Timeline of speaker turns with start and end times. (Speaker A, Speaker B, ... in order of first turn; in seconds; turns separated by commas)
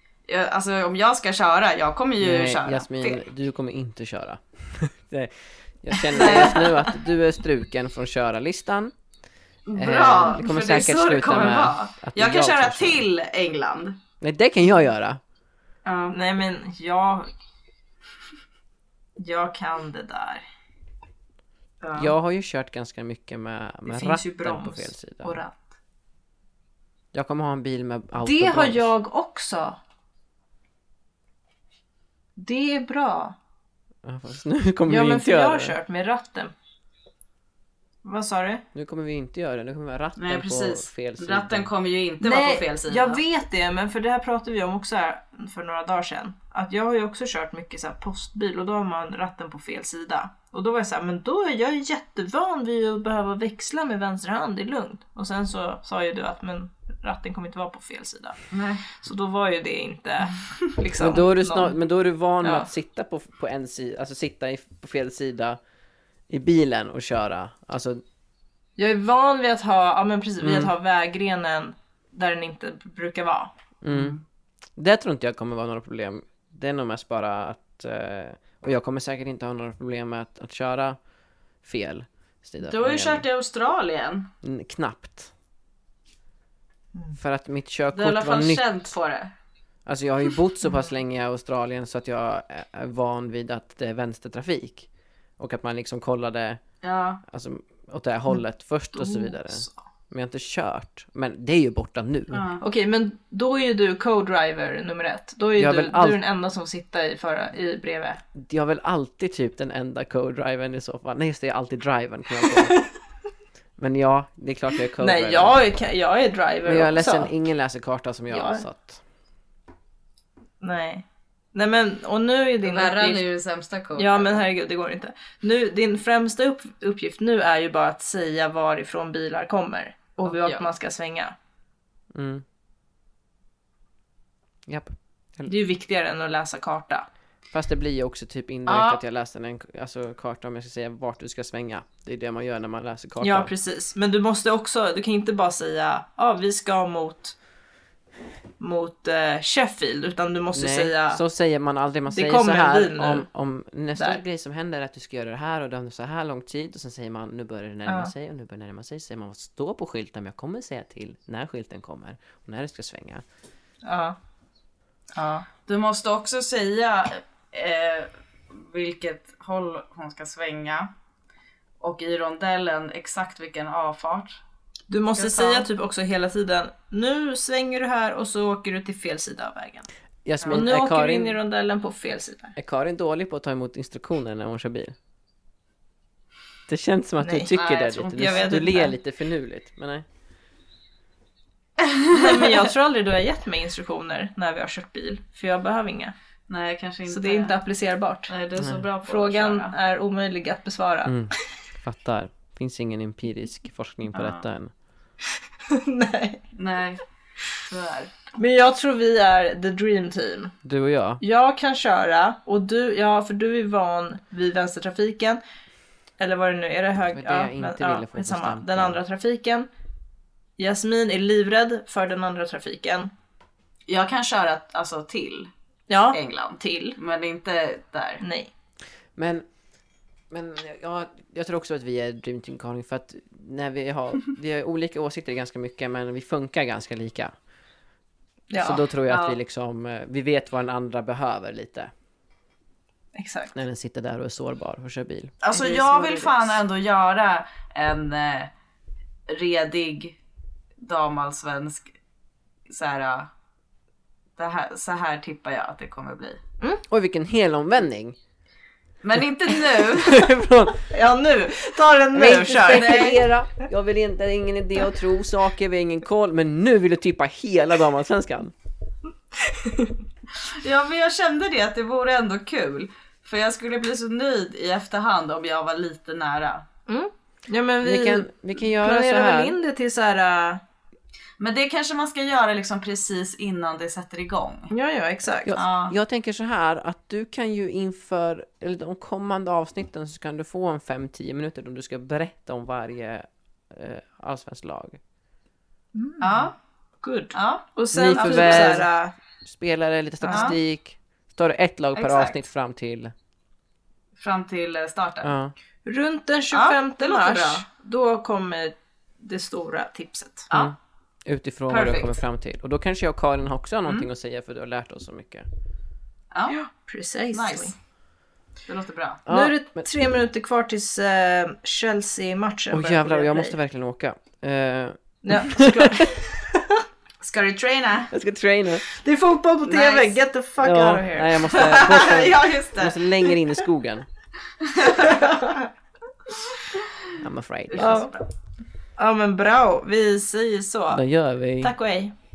Speaker A: 0.3-3.2, Speaker B: 2.2-8.9, Speaker A: 6.1-7.0, Speaker A: 9.7-14.0, Speaker B: 9.8-13.0, Speaker B: 14.2-15.2, Speaker A: 15.8-16.1, Speaker C: 16.1-17.3, Speaker C: 19.2-20.4, Speaker A: 21.8-22.1, Speaker B: 21.9-25.4, Speaker C: 23.9-25.8, Speaker B: 27.1-28.9, Speaker C: 28.2-29.8, Speaker C: 32.4-33.4, Speaker B: 34.0-35.7, Speaker C: 34.9-36.5, Speaker C: 38.0-38.6, Speaker B: 38.7-41.7, Speaker A: 40.2-43.2, Speaker C: 42.2-58.4, Speaker A: 58.5-58.8, Speaker C: 58.9-61.8, Speaker B: 61.0-65.6, Speaker C: 62.4-62.7, Speaker B: 66.3-68.0, Speaker C: 68.8-73.5, Speaker B: 70.4-70.7, Speaker B: 73.8-74.2, Speaker A: 73.9-74.2, Speaker B: 74.8-81.0, Speaker B: 81.6-83.2, Speaker A: 82.6-84.3, Speaker B: 84.4-85.3, Speaker B: 87.1-88.9, Speaker A: 87.9-89.3, Speaker B: 89.8-96.6, Speaker A: 96.8-97.2, Speaker B: 97.2-102.5, Speaker C: 98.9-99.8, Speaker A: 102.3-102.6, Speaker C: 102.6-108.2, Speaker B: 105.6-106.2, Speaker B: 108.3-112.8, Speaker B: 113.8-115.8, Speaker C: 115.0-117.3, Speaker B: 116.6-119.0, Speaker C: 118.3-118.6, Speaker C: 120.6-123.2, Speaker A: 122.6-124.4, Speaker C: 124.0-131.3, Speaker A: 130.2-130.6, Speaker B: 132.1-132.4, Speaker B: 134.7-135.5, Speaker C: 135.5-137.1, Speaker B: 137.5-143.5, Speaker A: 138.7-139.0, Speaker C: 143.2-147.3, Speaker C: 148.6-151.2, Speaker B: 150.5-163.2, Speaker C: 152.1-153.2, Speaker C: 157.8-158.1, Speaker C: 163.8-164.2, Speaker C: 165.2-165.4, Speaker A: 165.5-170.9, Speaker A: 171.8-174.4, Speaker C: 174.9-179.9, Speaker A: 175.2-175.7, Speaker B: 180.2-181.3, Speaker A: 180.4-180.7, Speaker C: 180.5-182.6, Speaker B: 182.6-184.9, Speaker B: 186.7-190.0, Speaker C: 187.2-188.9, Speaker A: 187.5-188.5, Speaker A: 191.8-192.6, Speaker C: 192.1-196.1, Speaker A: 196.5-197.5, Speaker C: 197.1-198.3, Speaker A: 198.3-199.7, Speaker B: 198.6-198.8, Speaker C: 199.1-201.2, Speaker B: 201.0-204.7, Speaker A: 204.1-204.4, Speaker C: 205.7-206.4, Speaker A: 206.5-207.0, Speaker A: 207.6-208.1, Speaker C: 208.3-210.5, Speaker B: 210.6-211.2, Speaker C: 211.2-215.4, Speaker C: 216.2-219.7, Speaker B: 217.1-219.0, Speaker C: 220.6-223.1, Speaker A: 223.9-225.5, Speaker C: 225.9-227.0, Speaker A: 226.1-228.2, Speaker C: 228.2-228.5, Speaker B: 229.2-229.5, Speaker B: 230.3-237.3, Speaker C: 238.5-238.8, Speaker B: 238.6-241.9, Speaker A: 239.1-239.4, Speaker C: 243.1-243.5, Speaker B: 243.5-245.3, Speaker A: 245.4-248.5, Speaker C: 245.5-246.6, Speaker A: 249.3-250.2, Speaker A: 250.8-251.9, Speaker A: 252.7-253.3, Speaker A: 254.4-256.4, Speaker B: 256.9-258.2, Speaker A: 259.0-260.3, Speaker B: 259.7-260.9, Speaker C: 260.9-263.2, Speaker B: 262.1-268.5, Speaker A: 262.6-263.2, Speaker C: 269.4-269.9, Speaker A: 270.4-276.6, Speaker C: 276.9-280.6, Speaker B: 277.8-279.6, Speaker A: 281.4-284.7, Speaker C: 284.7-285.6, Speaker B: 285.4-295.0, Speaker A: 285.6-285.9, Speaker C: 295.9-296.5, Speaker A: 296.2-296.5, Speaker C: 297.0-299.1, Speaker A: 297.3-298.8, Speaker B: 297.9-298.9, Speaker B: 299.4-303.1, Speaker C: 300.2-300.6, Speaker A: 301.9-302.4, Speaker A: 304.1-305.3, Speaker B: 305.2-305.5, Speaker C: 305.9-310.5, Speaker A: 306.5-307.6, Speaker A: 310.5-310.8, Speaker B: 310.5-315.4, Speaker A: 311.7-312.2, Speaker A: 316.3-316.6, Speaker C: 316.5-317.7, Speaker A: 317.3-317.7, Speaker A: 318.7-319.2, Speaker B: 319.2-319.9, Speaker C: 319.3-323.5, Speaker B: 322.7-326.1, Speaker C: 325.2-326.8, Speaker A: 327.2-328.1, Speaker B: 328.1-328.8, Speaker C: 328.8-332.2, Speaker A: 329.7-330.2, Speaker B: 330.6-334.1, Speaker A: 331.5-333.3, Speaker A: 334.6-335.4, Speaker C: 335.0-335.6, Speaker B: 337.2-338.0, Speaker A: 337.7-338.2, Speaker C: 337.8-338.1, Speaker C: 339.0-341.0, Speaker B: 340.9-341.7, Speaker C: 341.6-342.1